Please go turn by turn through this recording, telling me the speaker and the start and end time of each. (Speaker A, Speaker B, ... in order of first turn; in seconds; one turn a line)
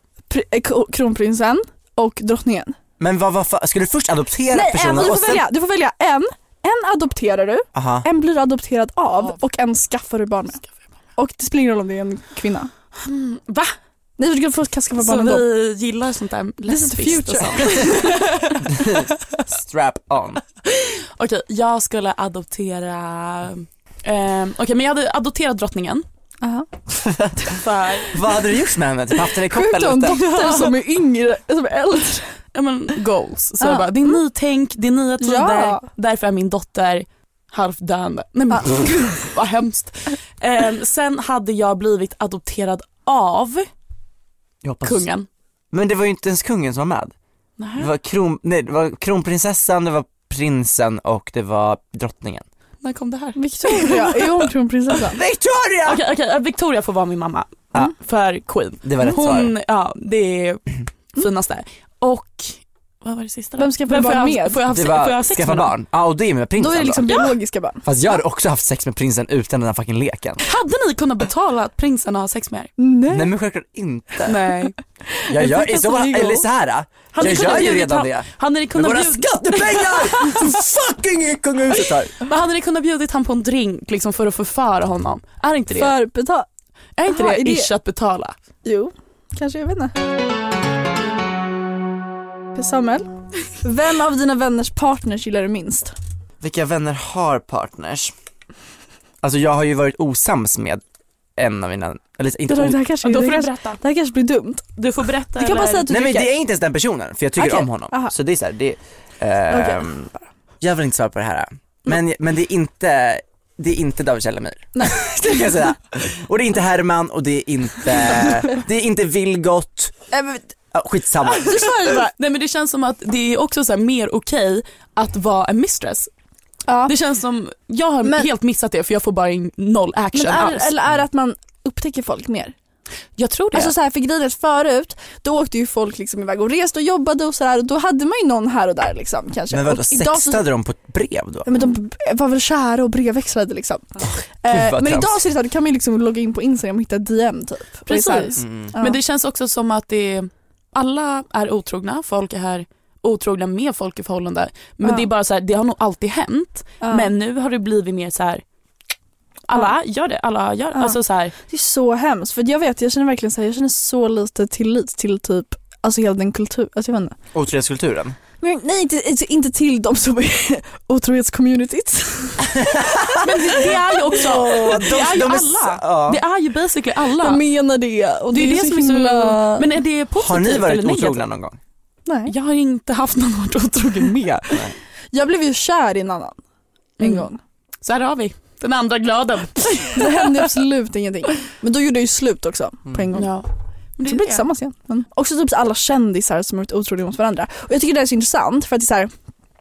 Speaker A: 0.3-2.8
Speaker B: 3.0-5.5
Speaker A: 4.5-10.6
Speaker B: 7.7-8.1
Speaker A: 11.2-12.7
Speaker C: 13.0-13.7
Speaker A: 14.2-15.4
Speaker C: 15.0-19.4
Speaker A: 16.7-18.2
Speaker B: 18.6-20.4
Speaker C: 20.6-26.0
Speaker A: 26.4-26.9
Speaker B: 27.0-27.5
Speaker C: 27.6-28.1
Speaker B: 28.1-30.2
Speaker A: 29.4-32.4
Speaker C: 30.1-30.8
Speaker C: 32.5-43.7
Speaker A: 33.6-34.1
Speaker A: 35.2-35.8
Speaker A: 38.5-38.8
Speaker B: 44.6-45.1
Speaker C: 44.8-45.3
Speaker B: 45.7-47.1
Speaker C: 47.6-47.9
Speaker B: 47.8-52.5
Speaker C: 52.8-54.4
Speaker A: 53.4-55.2
Speaker B: 55.1-56.0
Speaker C: 55.8-65.7
Speaker B: 58.8-59.5
Speaker A: 63.6-64.6
Speaker B: 64.7-67.1
Speaker A: 66.6-67.9
Speaker C: 67.1-67.3
Speaker B: 67.8-70.4
Speaker C: 70.4-72.7
Speaker A: 72.8-73.4
Speaker B: 73.1-74.4
Speaker C: 74.2-74.7
Speaker B: 75.3-82.1
Speaker A: 75.3-76.4
Speaker C: 77.1-80.5
Speaker A: 77.2-77.8
Speaker C: 82.2-86.0
Speaker A: 85.7-86.5
Speaker C: 87.0-88.3
Speaker A: 87.1-87.7
Speaker A: 88.6-89.9
Speaker A: 92.5-93.1
Speaker A: 93.6-95.9
Speaker B: 96.4-98.1
Speaker B: 99.2-100.8
Speaker B: 101.4-102.8
Speaker A: 102.5-104.7
Speaker C: 103.0-103.8
Speaker C: 104.8-105.9
Speaker A: 105.3-106.3
Speaker B: 105.9-110.1
Speaker A: 107.4-108.1
Speaker A: 109.5-109.9
Speaker B: 110.6-120.0
Speaker A: 120.1-120.4
Speaker B: 120.7-121.7
Speaker A: 121.4-122.1
Speaker C: 122.2-126.1
Speaker A: 126.7-126.9
Speaker C: 126.8-130.7
Speaker A: 130.1-132.5
Speaker C: 133.2-133.7
Speaker A: 133.5-140.4
Speaker B: 139.5-141.5
Speaker A: 141.4-149.0
Speaker B: 144.5-145.2
Speaker C: 147.9-158.4
Speaker B: 148.4-148.8
Speaker A: 156.8-157.1
Speaker C: 159.5-161.3
Speaker A: 161.5-167.2
Speaker B: 167.3-168.2
Speaker A: 168.4-175.0
Speaker B: 172.4-173.2
Speaker C: 173.3-177.4
Speaker B: 174.2-176.2
Speaker A: 177.2-179.7
Speaker C: 178.3-181.2
Speaker B: 180.2-181.6
Speaker A: 182.1-182.3
Speaker C: 182.2-184.6
Speaker A: 185.1-186.4
Speaker A: 187.0-187.4
Speaker C: 187.0-187.3
Speaker C: 187.8-190.2
Speaker A: 189.9-193.3
Speaker C: 193.1-194.4
Speaker A: 194.0-199.1